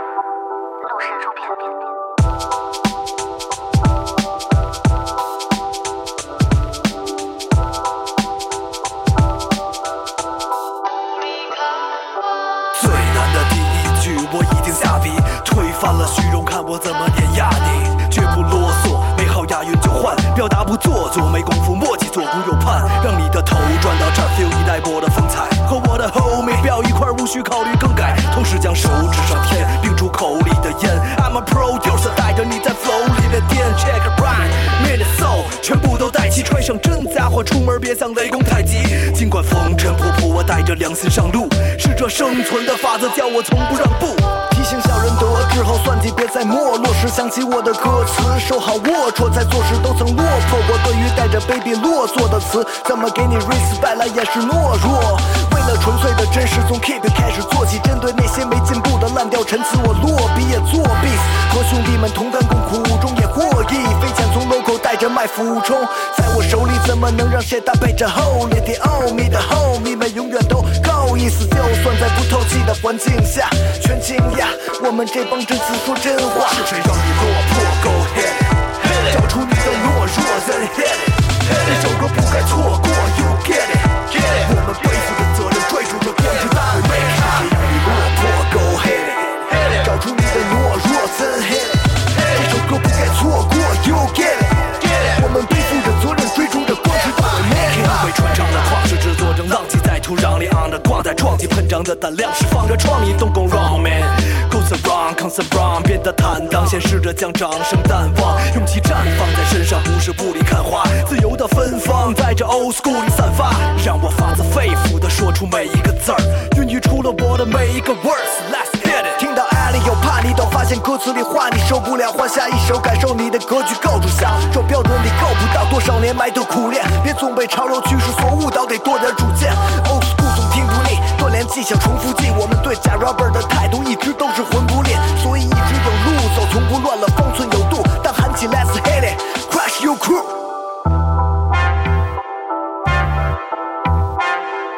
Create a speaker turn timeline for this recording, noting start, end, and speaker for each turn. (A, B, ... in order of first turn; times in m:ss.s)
0:12.7-2:20.4 A